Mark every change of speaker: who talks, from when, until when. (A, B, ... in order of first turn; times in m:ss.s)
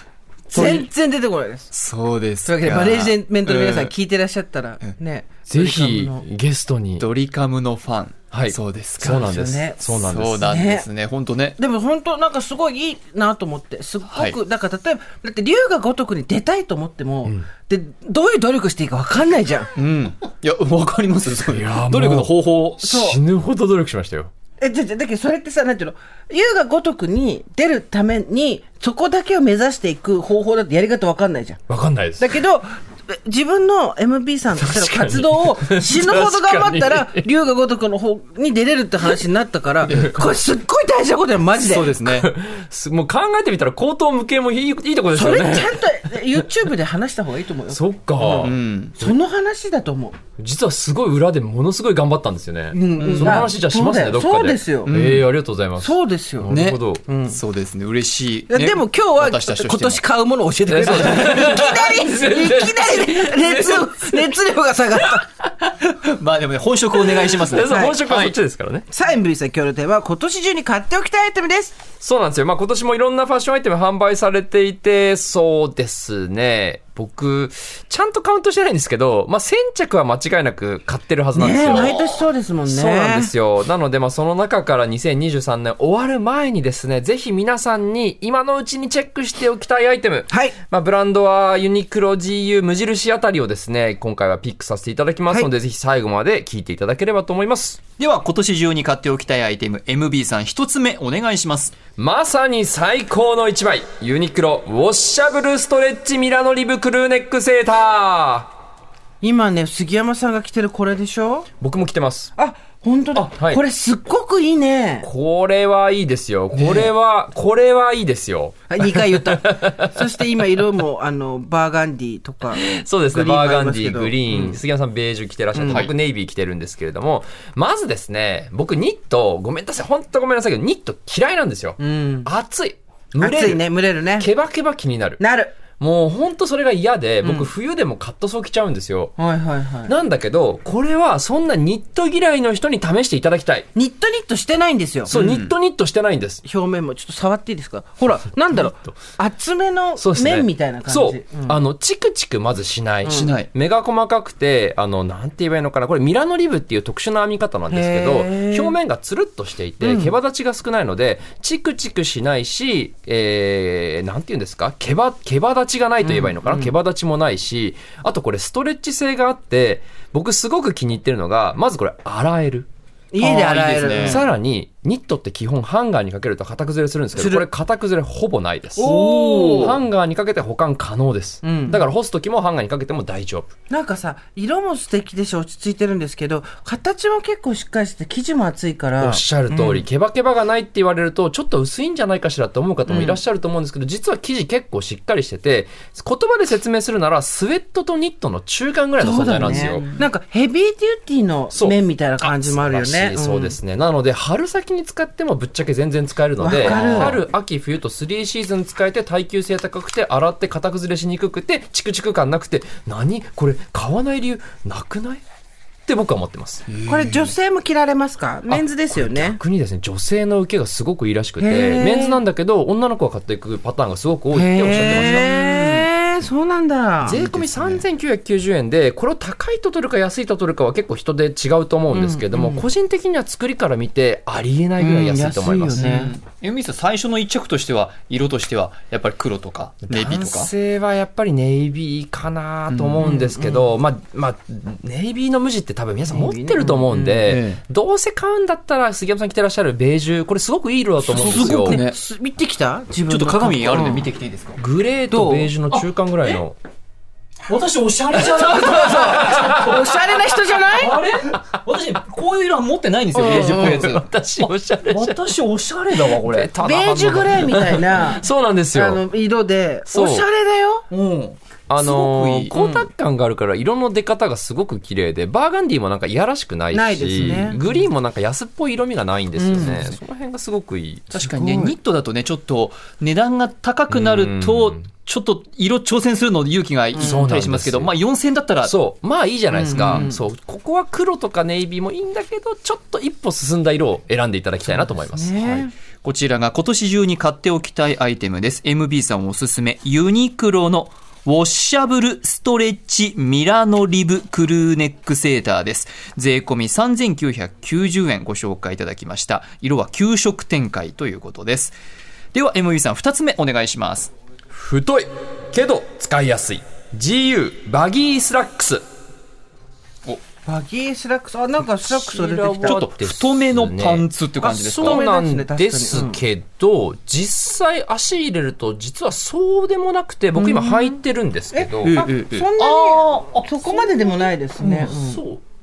0:00.5-0:01.7 A
0:00.5-0:00.8 B
0:01.7-0:03.9 B
0:02.4-0:06.2 A
0:05.5-0:07.0 C
0:07.0-0:11.6 B
0:08.3-0:10.5 C
0:09.0-0:09.8 A
0:10.4-0:10.9 A
0:11.6-0:19.7 A
0:14.1-0:14.4 B
0:19.8-0:22.9 B
0:21.4-0:24.3 C
0:22.8-0:23.2 A
0:24.6-0:31.6 A
0:31.7-0:32.4 C
0:32.2-0:41.9 A
0:34.6-0:37.2 C
0:39.9-0:40.2 B
0:41.6-0:42.3 B
0:42.0-0:45.8 C
0:45.1-0:50.2 A
0:47.7-0:49.1 C
0:48.2-0:49.0 B
0:50.4-0:57.0 C
0:52.7-0:54.9 A
0:53.0-0:53.5 B
0:54.8-0:55.3 B
0:55.8-0:57.3 A
0:56.5-1:00.0 B
0:58.5-1:05.3 A
1:00.7-1:04.4 C
1:04.9-1:05.2 C
1:05.8-1:08.3 B
1:07.1-1:08.8 C
1:07.6-1:08.0 A
1:08.9-1:11.8 A
1:12.0-1:22.1 C
1:21.3-1:23.3 A
1:22.6-1:37.8 C
1:30.3-1:30.6 A
1:38.0-1:41.7 B
1:42.0-1:48.5 C
1:49.2-1:51.5 A
1:51.6-1:52.3 C
1:52.4-1:55.1 A
1:53.1-1:53.6 C
1:55.0-1:59.9 C
1:56.5-1:56.9 B
1:58.7-2:04.5 A
2:02.5-2:13.6 C
2:05.5-2:05.9 A
2:11.8-2:12.3 A
2:13.2-2:14.3 A
2:14.2-2:15.2 C
2:15.2-2:15.5 A
2:15.8-2:19.1 C
2:17.2-2:17.5 A
2:19.2-2:19.9 A
2:19.9-2:23.7 C
2:23.7-2:25.1 A
2:25.1-2:26.4 C
2:25.1-2:25.5 B
2:26.4-2:31.6 A
2:28.5-2:28.9 C
2:30.0-2:52.7 C
2:33.0-2:33.3 A
2:33.0-2:33.5 B
2:37.7-2:38.8 A
2:39.8-2:40.1 A
2:46.1-2:46.7 A
2:53.1-2:54.2 A
2:53.2-2:54.2 B
2:54.0-2:58.9 C
2:57.1-2:57.4 A
2:58.8-2:59.8 A
2:58.8-2:59.8 B
2:59.5-3:03.5 C
3:01.4-3:01.8 A
3:03.7-3:09.7 A
3:09.0-3:19.8 C
3:12.8-3:13.2 A
3:19.0-3:23.6 A
3:19.4-3:20.0 B
3:21.5-3:35.2 C
3:26.4-3:27.2 A
3:26.6-3:27.2 B
3:35.9-3:36.6 C
3:36.7-3:37.3 B
3:36.8-3:39.4 A
3:38.5-3:45.3 C
3:41.4-3:42.2 A
3:44.3-3:47.3 A
3:44.7-3:45.9 B
3:47.0-3:55.8 C
3:47.1-3:47.8 B
3:51.9-3:52.6 A
3:54.8-3:56.1 A
3:55.8-4:00.5 B
3:59.9-4:11.8 C
4:02.7-4:03.1 B
4:03.0-4:03.7 A
4:06.1-4:07.2 A
4:07.2-4:07.6 B
4:11.0-4:12.0 B
4:11.3-4:14.1 A
4:13.0-4:14.6 B
4:14.6-4:16.6 C
4:15.1-4:15.5 A
4:15.7-4:16.3 B
4:17.4-4:26.5 B
4:18.1-4:21.0 A
4:19.0-4:19.6 C
4:23.1-4:25.2 C
4:23.1-4:23.9 A
4:26.2-4:29.0 C
4:26.6-4:30.8 A
4:29.9-4:30.2 C
4:30.9-4:32.5 B
4:31.7-4:41.4 C
4:32.5-4:32.9 A
4:36.7-4:37.6 A
4:37.2-4:37.7 B
4:39.4-4:39.9 A
4:39.5-4:39.8 B
4:41.1-4:48.8 B
4:41.1-4:41.7 A
4:43.9-4:44.8 C
4:46.9-4:47.9 C
4:47.0-4:47.3 A
4:48.6-4:55.7 C
4:49.6-4:50.1 A
4:49.6-4:50.2 B
4:54.8-4:55.7 A
4:56.0-5:11.8 B
5:12.3-5:14.1 B
5:14.5-5:18.8 C
5:20.4-5:22.8 A
5:21.8-5:32.0 C
5:22.6-5:25.0 B
5:24.7-5:26.2 A
5:30.3-5:31.0 A
5:31.5-5:35.2 A
5:31.8-5:35.0 B
5:34.6-5:35.4 C